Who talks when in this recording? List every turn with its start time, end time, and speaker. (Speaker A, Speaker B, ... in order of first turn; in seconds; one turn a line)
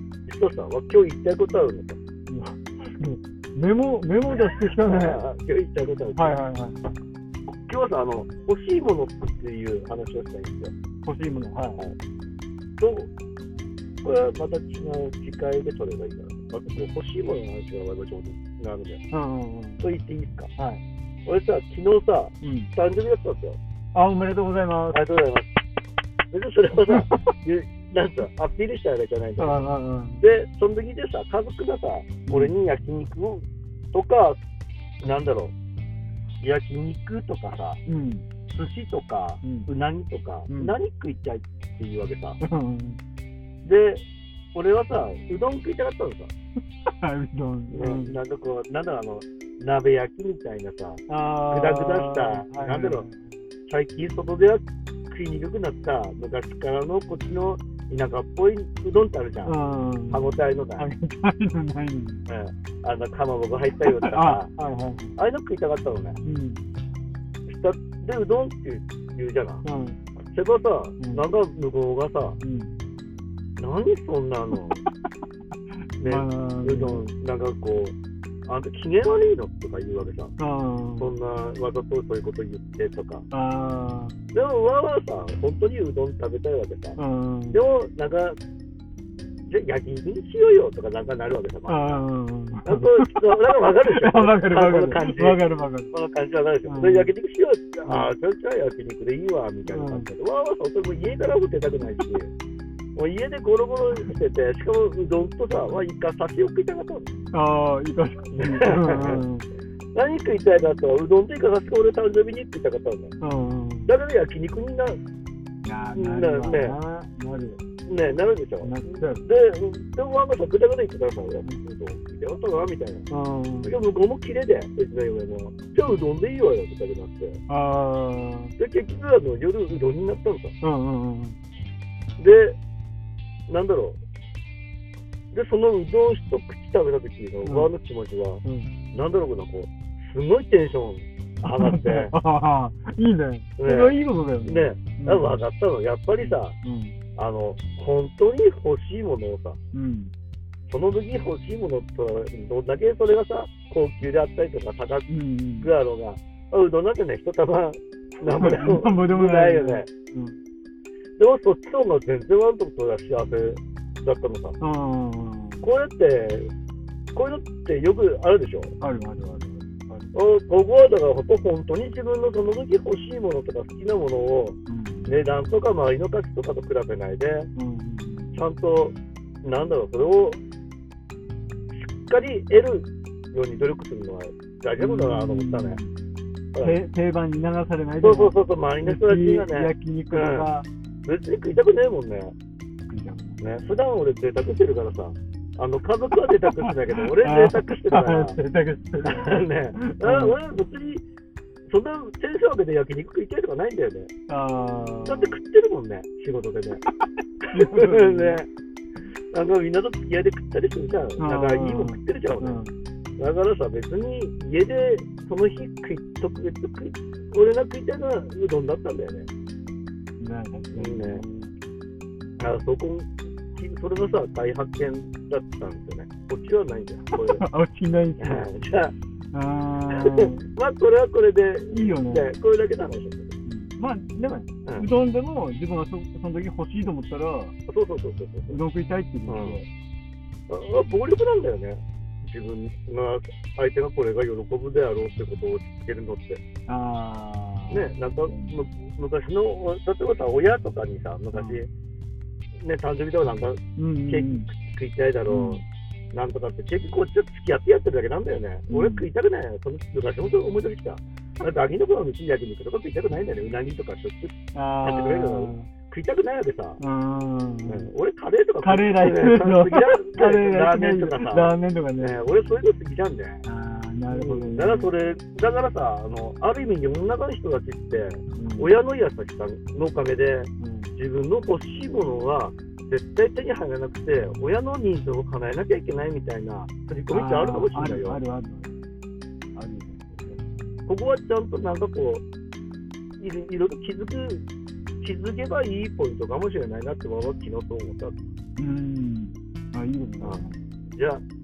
Speaker A: 0.2-2.0
Speaker B: 2.3-5.2
Speaker A: 4.8-6.3
Speaker B: 6.2-6.8
Speaker A: 7.5-10.7
Speaker B: 11.0-11.8
Speaker A: 12.8-13.1
Speaker A: 14.0-19.0
Speaker B: 19.1-19.8
Speaker A: 19.8-20.5
Speaker A: 21.2-23.6
Speaker B: 22.4-22.7
Speaker B: 23.9-25.0
Speaker A: 24.9-25.5
Speaker A: 26.3-29.6
Speaker B: 29.4-30.2
Speaker A: 30.2-34.4
Speaker B: 32.3-32.5
Speaker A: 35.0-35.5
Speaker A: 36.4-37.8
Speaker B: 37.9-38.2
Speaker A: 38.5-42.4
Speaker B: 39.4-39.7
Speaker B: 40.5-40.7
Speaker B: 42.4-43.0
Speaker A: 43.6-44.0
Speaker A: 44.5-46.3
Speaker B: 46.9-48.2
Speaker A: 47.7-53.0
Speaker B: 51.1-53.3
Speaker A: 53.7-59.5
Speaker B: 59.4-62.2
Speaker A: 60.1-60.9
Speaker A: 62.3-64.5
Speaker B: 63.8-65.1
Speaker A: 65.2-66.2
Speaker B: 66.2-66.6
Speaker A: 67.5-69.6
Speaker B: 69.6-70.0
Speaker A: 70.3-72.4
Speaker B: 72.4-72.7
Speaker A: 73.6-74.8
Speaker B: 76.0-77.0
Speaker A: 76.0-80.3
Speaker B: 80.4-81.1
Speaker A: 81.0-83.3
Speaker B: 83.3-84.1
Speaker A: 84.3-87.0
Speaker B: 87.0-87.6
Speaker A: 87.5-88.4
Speaker A: 89.5-92.0
Speaker B: 91.7-95.9
Speaker A: 92.6-95.4
Speaker A: 95.9-102.3
Speaker B: 96.7-97.1
Speaker B: 97.8-98.1
Speaker B: 99.7-100.1
Speaker A: 103.0-107.1
Speaker B: 107.3-109.5
Speaker A: 108.3-109.2
Speaker A: 109.9-113.1
Speaker B: 113.2-113.9
Speaker A: 113.9-115.0
Speaker B: 115.6-117.6
Speaker A: 115.9-116.8
Speaker A: 117.8-123.1
Speaker B: 118.6-119.2
Speaker B: 123.1-123.7
Speaker A: 123.6-127.4
Speaker B: 127.5-128.5
Speaker A: 128.6-130.6
Speaker B: 130.6-131.4
Speaker A: 132.2-132.6
Speaker A: 133.5-134.0
Speaker A: 135.3-142.1
Speaker B: 137.4-137.7
Speaker B: 138.4-138.7
Speaker B: 141.5-145.4
Speaker A: 143.6-146.6
Speaker B: 146.2-146.9
Speaker A: 147.2-149.6
Speaker B: 149.7-150.1
Speaker A: 150.7-155.1
Speaker B: 155.1-155.7
Speaker A: 155.6-159.9
Speaker B: 158.3-160.4
Speaker A: 161.2-164.6
Speaker B: 164.6-165.6
Speaker A: 165.6-166.5
Speaker A: 167.1-168.7
Speaker B: 168.8-170.1
Speaker A: 170.1-177.5
Speaker B: 174.7-175.2
Speaker B: 177.5-178.4
Speaker A: 178.3-180.4
Speaker A: 181.7-185.8
Speaker B: 184.8-185.9
Speaker B: 186.6-190.7
Speaker A: 188.0-190.5
Speaker A: 191.0-192.3
Speaker B: 192.9-193.7
Speaker A: 193.4-198.4
Speaker B: 196.4-200.4
Speaker A: 199.1-201.0
Speaker A: 201.7-204.1
Speaker B: 204.3-205.3
Speaker A: 205.0-206.8
Speaker B: 207.4-208.4
Speaker A: 207.5-208.5
Speaker A: 209.3-212.6
Speaker B: 211.2-212.7
Speaker A: 213.2-219.3
Speaker B: 220.2-221.5
Speaker A: 220.7-221.2
Speaker A: 222.4-227.4
Speaker B: 227.1-228.5
Speaker A: 228.2-228.9
Speaker B: 229.3-230.4
Speaker A: 229.9-233.3
Speaker B: 231.7-232.3
Speaker B: 233.4-237.5
Speaker A: 237.7-238.6
Speaker B: 238.5-239.7
Speaker A: 239.3-239.6
Speaker A: 240.5-246.4
Speaker B: 246.7-248.7
Speaker A: 247.7-251.7
Speaker B: 251.3-251.6
Speaker A: 252.6-266.8
Speaker B: 253.8-254.5
Speaker B: 255.3-255.6
Speaker B: 258.7-259.1
Speaker B: 264.5-265.7
Speaker B: 266.8-267.9
Speaker A: 267.7-273.4
Speaker B: 268.6-272.2
Speaker B: 273.4-274.9
Speaker A: 274.1-288.2
Speaker B: 278.4-278.7
Speaker B: 280.6-280.9
Speaker B: 287.1-288.8
Speaker B: 289.5-290.4
Speaker A: 290.9-292.2
Speaker A: 293.2-294.4
Speaker A: 295.0-298.2
Speaker B: 298.6-300.6
Speaker A: 300.9-301.2